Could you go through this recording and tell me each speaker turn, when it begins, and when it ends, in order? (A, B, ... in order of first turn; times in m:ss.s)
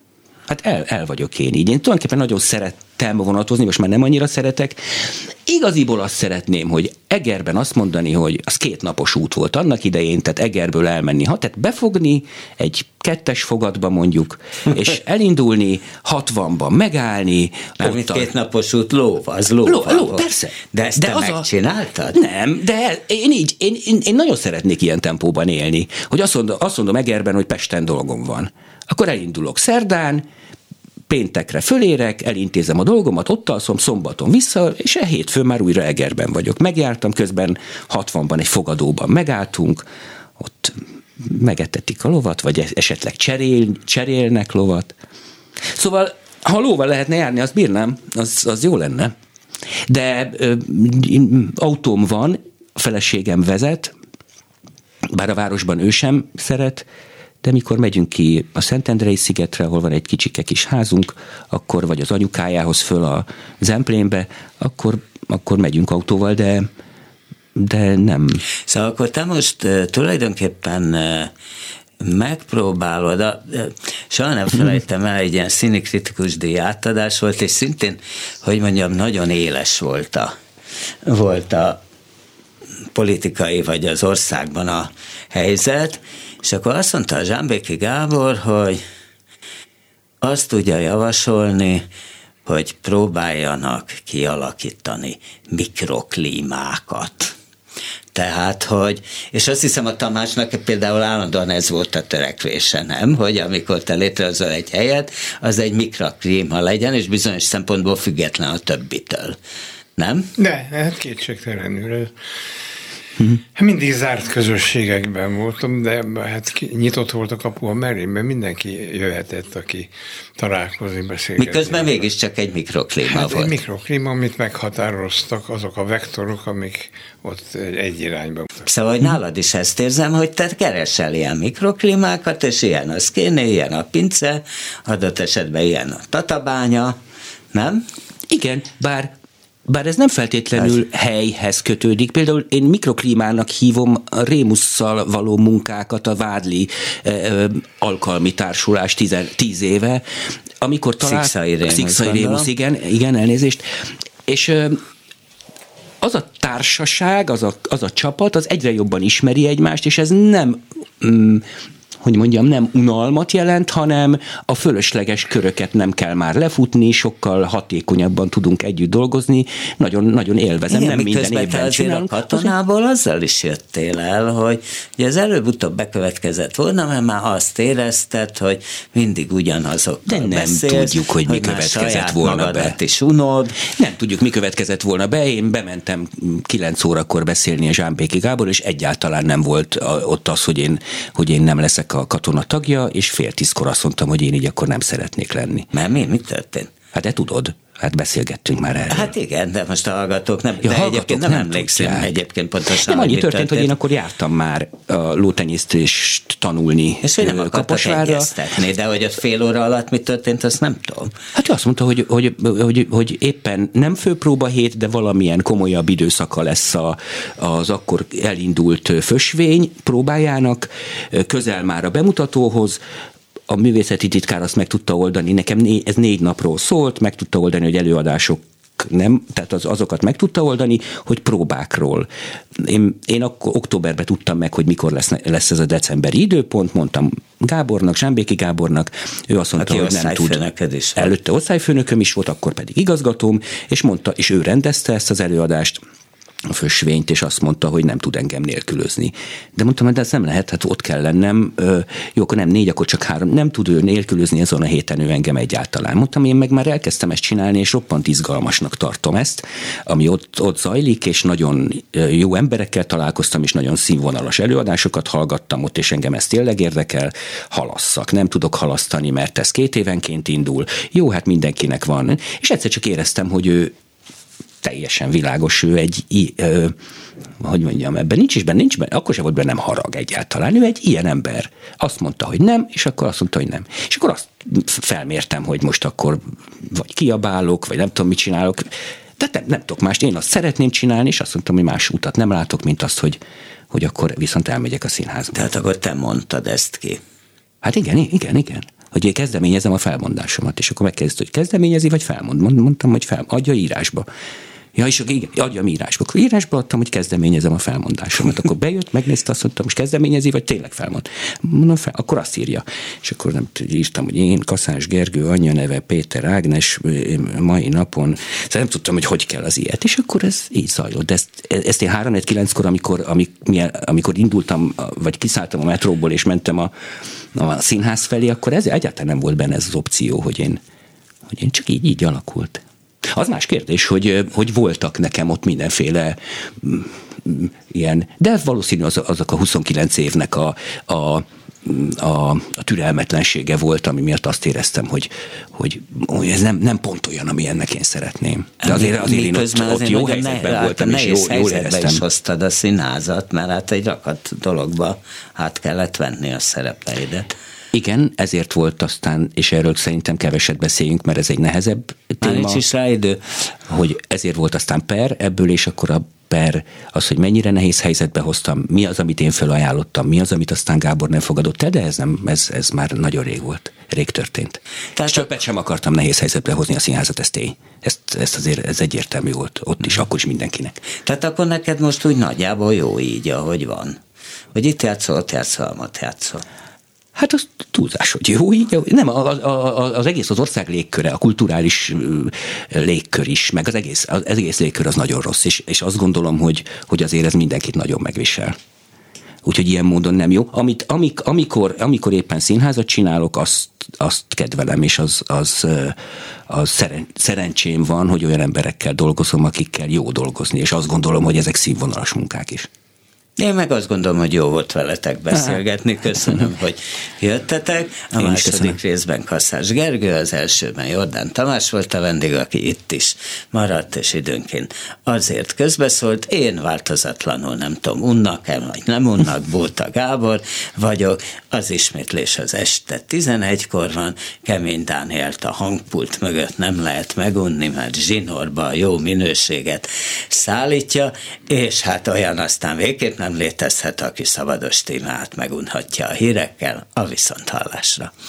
0:00.5-0:18.3 A
0:17.8-0:22.2 B
0:19.6-0:21.5 A
0:22.1-0:30.2 A
0:31.1-0:39.8 A
0:40.4-0:44.9 A
0:45.7-0:49.1 A
0:49.9-0:53.9 A
0:55.1-0:56.9 A
0:57.4-1:06.7 A
1:07.6-1:08.4 A
1:08.6-1:11.3 B
1:12.0-1:20.3 B
1:21.0-1:21.8 B
1:22.9-1:28.8 B
1:30.2-1:31.8 B
1:32.4-1:37.3 B
1:38.1-1:49.4 B
1:50.0-1:50.3 B
1:50.4-1:52.1 C
1:53.5-2:02.0 C
2:01.4-2:03.6 B
2:03.0-2:08.7 C
2:08.6-2:17.0 B
2:17.5-2:17.8 B
2:18.3-2:19.1 A
2:19.7-2:30.0 A
2:30.6-2:33.6 A
2:31.0-2:32.5 B
2:34.3-2:34.8 A
2:36.0-2:41.4 A
2:42.0-2:52.5 A
2:50.7-3:03.6 B
3:00.1-3:02.7 A
3:03.6-3:15.7 A
3:15.7-3:16.7 B
3:16.9-3:19.1 A
3:18.9-3:23.7 B
3:20.6-3:22.1 A
3:22.8-3:28.3 A
3:27.0-3:31.1 B
3:31.3-3:42.8 A
3:43.5-4:00.4 A
3:59.6-4:01.1 B
4:01.0-4:05.8 A
4:06.5-4:33.7 A
4:34.6-4:36.7 A
4:37.4-4:55.5 A
4:55.3-4:57.0 B
4:57.6-5:04.0 A
5:04.7-5:26.7 A
5:27.3-5:30.6 A
5:31.3-5:52.0 A
5:48.6-5:57.3 B
5:57.7-6:02.6 A
6:02.2-6:03.4 B
6:03.7-6:20.8 A
6:15.0-6:15.3 B
6:21.0-6:24.0 B
6:24.5-6:26.4 B
6:27.2-6:38.6 A
6:39.4-6:46.0 A
6:46.5-6:52.7 A
6:53.4-7:28.1 B
6:58.2-6:58.7 A